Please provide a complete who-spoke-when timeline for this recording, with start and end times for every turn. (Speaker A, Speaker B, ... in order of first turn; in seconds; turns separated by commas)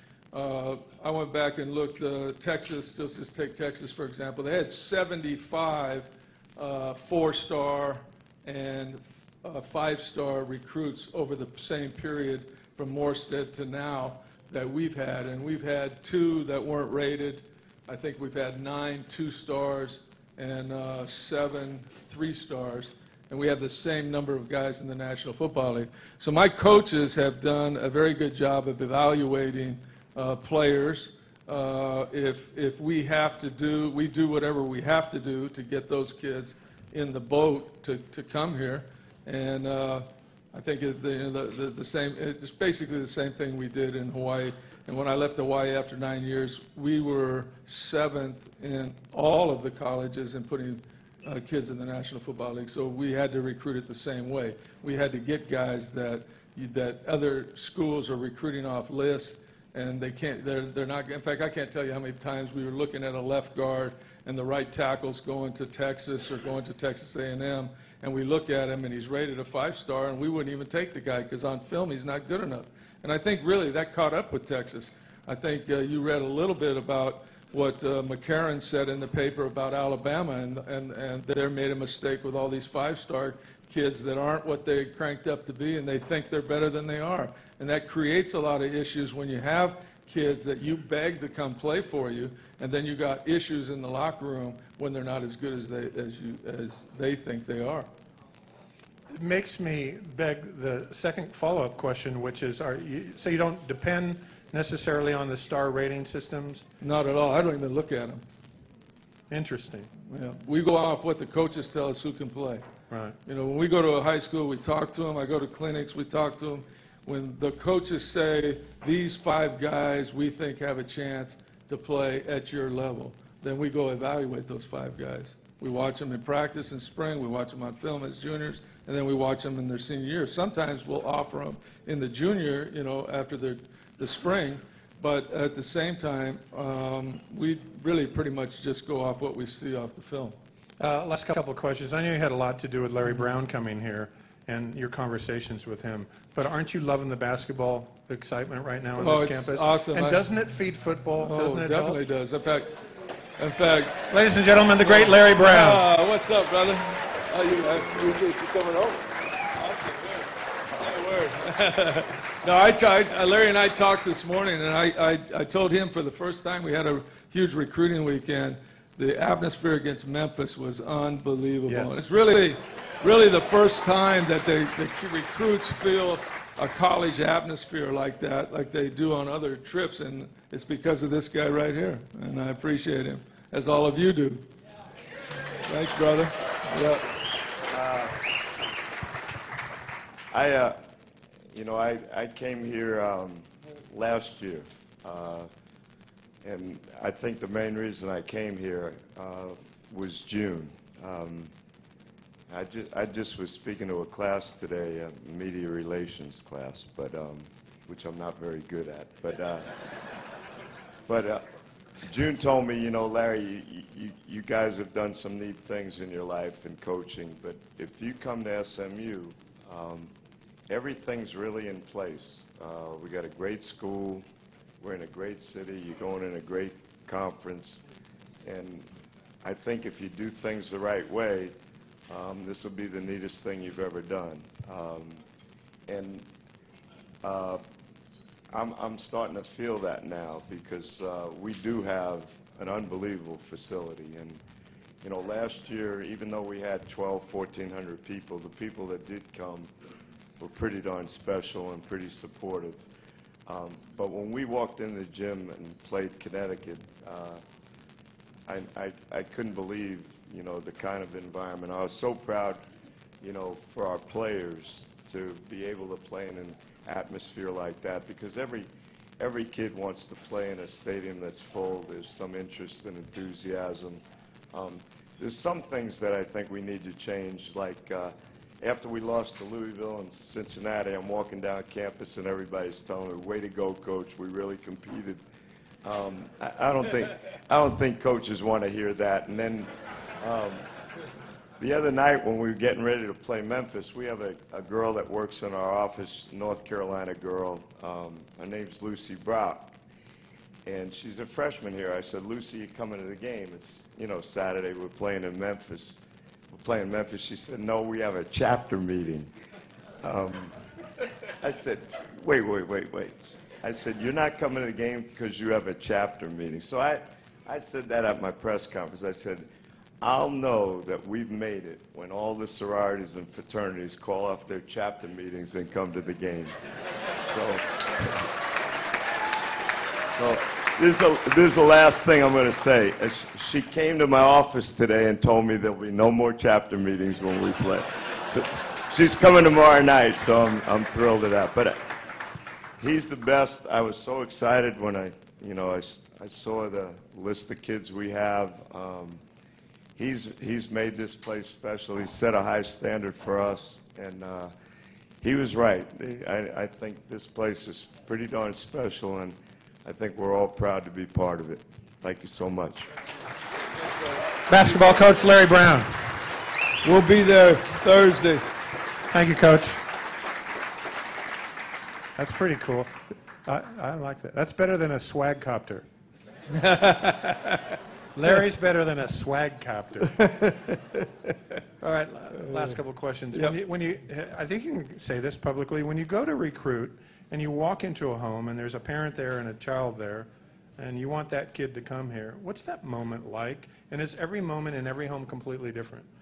Speaker A: 0.3-97.9, Speaker B: 99.1-106.7, Speaker A: 106.8-108.2, Speaker B: 109.3-109.9, Speaker A: 110.1-112.6, Speaker B: 112.9-113.2, Speaker A: 113.3-140.4, Speaker B: 140.8-152.0, Speaker A: 149.0-150.2, Speaker A: 151.2-152.7, Speaker A: 153.4-154.1, Speaker B: 154.1-155.8, Speaker A: 154.9-184.4, Speaker B: 171.7-172.0, Speaker A: 185.7-187.1, Speaker C: 187.7-188.2, Speaker C: 190.3-190.8, Speaker C: 191.5-195.5, Speaker C: 196.4-201.5, Speaker C: 202.5-209.7, Speaker C: 211.1-211.5, Speaker C: 212.0-220.1, Speaker C: 220.7-224.2, Speaker C: 224.8-227.8, Speaker C: 228.4-228.9, Speaker C: 229.4-231.5, Speaker C: 232.1-235.2, Speaker C: 235.9-236.3, Speaker C: 237.2-237.6, Speaker C: 238.5-244.4, Speaker C: 245.0-249.7, Speaker C: 250.4-252.8, Speaker C: 253.5-257.4, Speaker C: 258.5-262.6, Speaker C: 263.2-268.7, Speaker C: 269.2-274.0, Speaker C: 274.5-285.2, Speaker C: 285.8-290.6, Speaker C: 291.6-299.8, Speaker C: 300.7-306.0, Speaker C: 306.5-309.3, Speaker C: 310.0-310.6, Speaker C: 311.4-319.5, Speaker C: 320.0-326.6, Speaker C: 327.2-328.2, Speaker C: 330.2-341.8, Speaker C: 342.8-349.2, Speaker C: 350.0-354.5, Speaker C: 355.2-362.9, Speaker B: 364.5-366.0, Speaker A: 366.8-368.4, Speaker B: 369.1-369.8, Speaker B: 372.2-372.9, Speaker B: 373.5-375.9, Speaker A: 376.5-377.8, Speaker B: 378.1-380.2, Speaker A: 380.2-381.1, Speaker B: 381.8-396.1